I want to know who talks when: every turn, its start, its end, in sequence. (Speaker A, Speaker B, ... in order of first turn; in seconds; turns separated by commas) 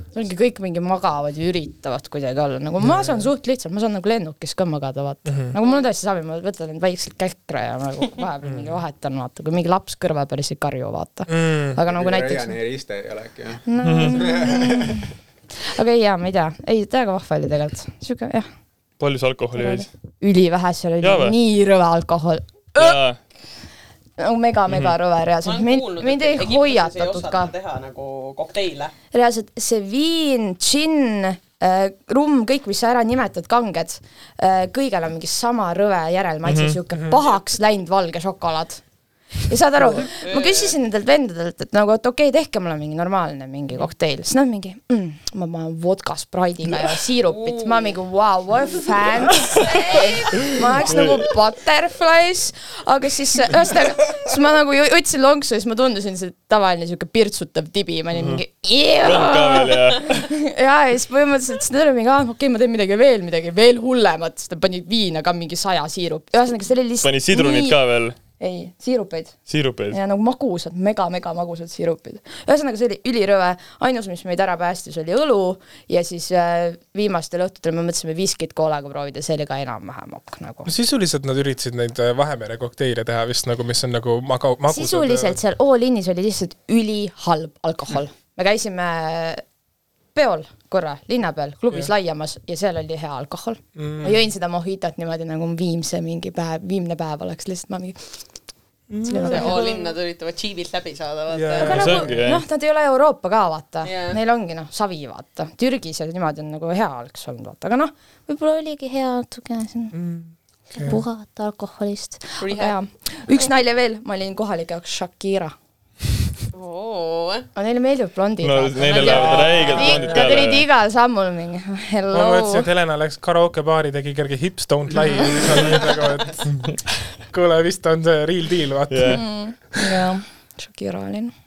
Speaker A: 0.1-12.6, Speaker B: 2.8-3.3, Speaker B: 5.3-5.5, Speaker B: 8.4-8.8, Speaker B: 11.3-11.8, Speaker C: 11.9-15.0, Speaker A: 13.7-15.1, Speaker D: 13.8-14.2, Speaker A: 15.6-18.5, Speaker D: 19.0-19.9, Speaker A: 19.6-22.4, Speaker D: 21.0-21.4, Speaker D: 22.7-23.2, Speaker A: 24.2-27.5, Speaker D: 24.7-24.9, Speaker E: 25.4-28.9, Speaker A: 29.1-38.8, Speaker D: 36.4-36.8, Speaker A: 39.4-67.8, Speaker E: 40.2-40.8, Speaker E: 47.3-48.0, Speaker D: 50.8-51.2, Speaker D: 58.1-58.4, Speaker D: 59.0-60.3, Speaker D: 67.0-68.2, Speaker A: 68.4-69.3, Speaker D: 69.5-70.0, Speaker A: 69.9-80.7, Speaker B: 80.7-85.4, Speaker A: 84.7-89.4, Speaker A: 90.1-98.2, Speaker B: 93.8-94.2, Speaker B: 98.9-99.7, Speaker A: 99.0-99.9, Speaker E: 99.2-101.8, Speaker B: 101.3-102.1, Speaker A: 101.6-109.9, Speaker D: 101.7-102.4, Speaker E: 103.8-104.2, Speaker B: 109.9-111.0, Speaker A: 110.8-115.5, Speaker E: 112.4-112.8, Speaker E: 116.5-117.5, Speaker A: 117.5-122.7, Speaker D: 118.4-120.6, Speaker E: 118.8-120.3, Speaker B: 122.1-126.5, Speaker B: 127.2-129.2, Speaker D: 128.9-129.2, Speaker A: 129.1-131.3